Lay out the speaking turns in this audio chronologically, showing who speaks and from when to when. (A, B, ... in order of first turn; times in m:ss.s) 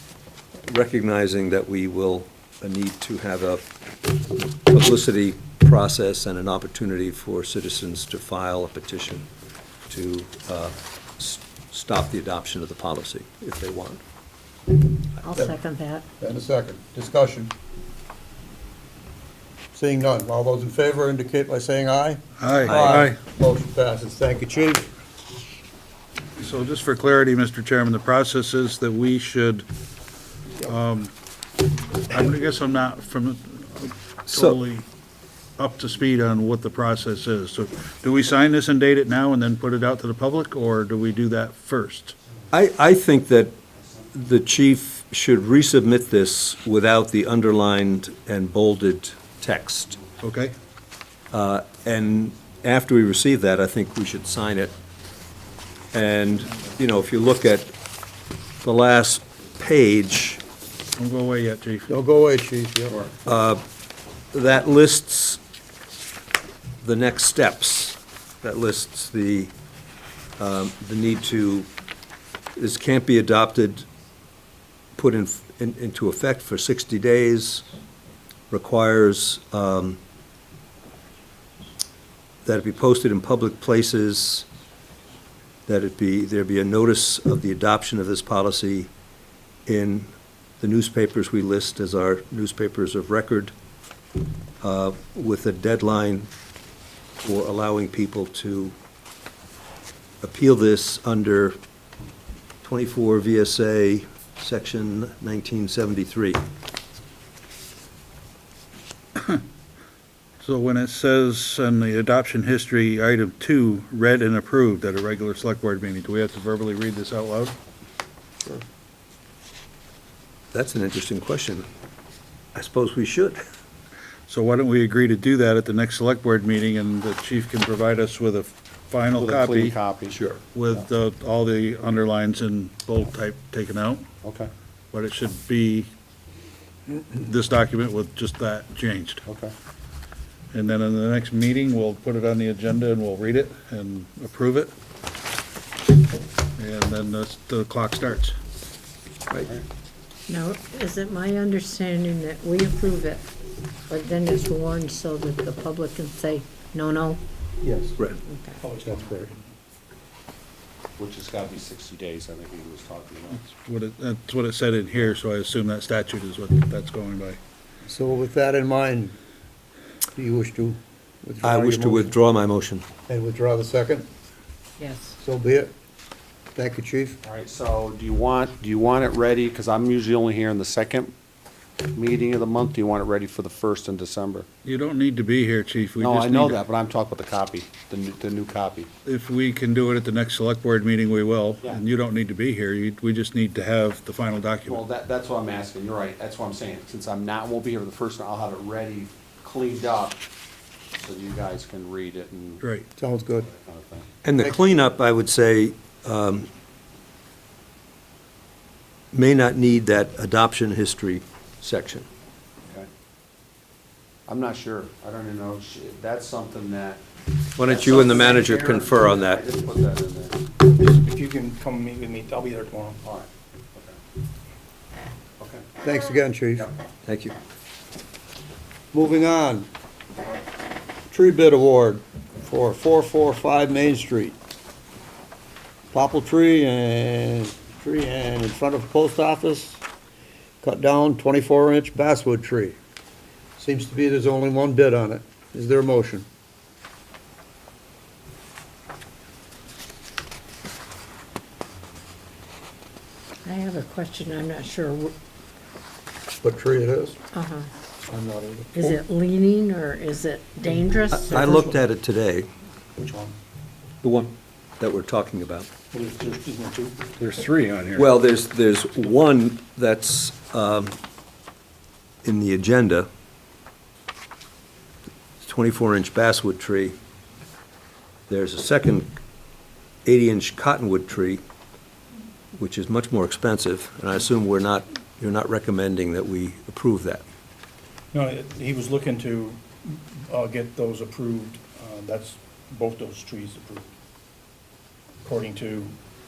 0:00.6-0:09.3 A
0:09.9-0:14.0 A
0:15.2-0:16.0 B
0:16.2-0:17.5 C
0:19.7-0:24.9 C
0:22.4-0:23.1 D
0:22.7-0:23.2 A
0:26.4-0:29.7 D
0:30.6-0:31.1 D
0:32.1-0:34.9 D
0:34.3-0:34.6 A
0:35.6-0:42.2 D
0:42.5-0:43.6 A
0:44.1-0:50.0 A
0:50.2-0:50.6 D
0:51.3-0:54.7 A
0:55.9-0:57.7 A
0:58.6-1:00.4 A
1:01.0-1:01.9 D
1:01.9-1:03.0 C
1:03.3-1:03.6 A
1:04.3-1:05.4 A
1:06.8-1:09.5 A
1:10.4-1:11.7 A
1:12.6-1:13.9 A
1:15.0-1:17.7 A
1:18.5-1:20.0 A
1:22.4-1:24.5 A
1:25.7-1:28.9 A
1:29.7-1:33.5 A
1:34.6-1:36.3 A
1:37.2-1:38.8 A
1:40.2-1:41.6 A
1:42.6-1:46.4 A
1:50.4-1:57.6 D
2:00.5-2:01.7 A
2:02.6-2:03.4 A
2:04.3-2:09.8 D
2:09.2-2:10.2 E
2:10.1-2:10.4 A
2:10.6-2:14.1 D
2:14.2-2:14.5 E
2:14.9-2:15.9 D
2:17.0-2:19.2 D
2:19.3-2:19.5 E
2:20.5-2:24.7 D
2:26.6-2:28.4 D
2:30.3-2:33.2 B
2:33.9-2:37.2 B
2:37.6-2:38.0 F
2:38.3-2:38.6 B
2:38.6-2:39.5 F
2:41.0-2:43.4 E
2:43.3-2:47.4 D
2:47.9-2:49.2 C
2:50.2-2:52.2 C
2:51.4-2:52.8 A
2:53.1-2:54.1 C
2:54.8-2:55.2 B
2:55.2-2:55.7 C
2:56.6-2:57.2 C
2:57.2-3:01.1 E
3:01.9-3:04.5 E
3:04.6-3:06.6 D
3:06.0-3:08.9 E
3:09.1-3:14.8 D
3:14.7-3:20.2 E
3:21.0-3:22.6 E
3:23.0-3:23.5 C
3:23.4-3:24.1 E
3:24.2-3:26.5 A
3:29.1-3:32.1 A
3:34.3-3:37.0 E
3:37.6-3:39.4 A
3:37.6-3:40.4 E
3:40.6-3:43.0 F
3:43.0-3:44.0 E
3:45.4-3:45.6 E
3:45.8-3:46.7 C
3:47.1-3:47.4 A
3:48.9-3:49.7 C
3:51.1-3:54.4 C
3:55.9-3:59.8 C
4:00.6-4:02.8 C
4:03.6-4:06.3 C
4:13.4-4:15.1 B
4:16.4-4:17.2 C
4:17.4-4:17.7 B
4:18.1-4:18.9 C
4:18.8-4:21.4 B
4:21.1-4:22.5 A
4:21.4-4:21.8 F
4:23.0-4:23.4 F
4:24.0-4:25.7 A
4:25.9-4:27.4 F
4:27.2-4:28.0 D
4:28.0-4:31.0 A
4:32.2-4:33.1 A
4:35.4-4:37.0 A
4:38.3-4:39.1 A
4:40.0-4:41.4 A
4:42.6-4:47.2 A
4:48.1-4:53.9 F
4:55.2-4:56.0 F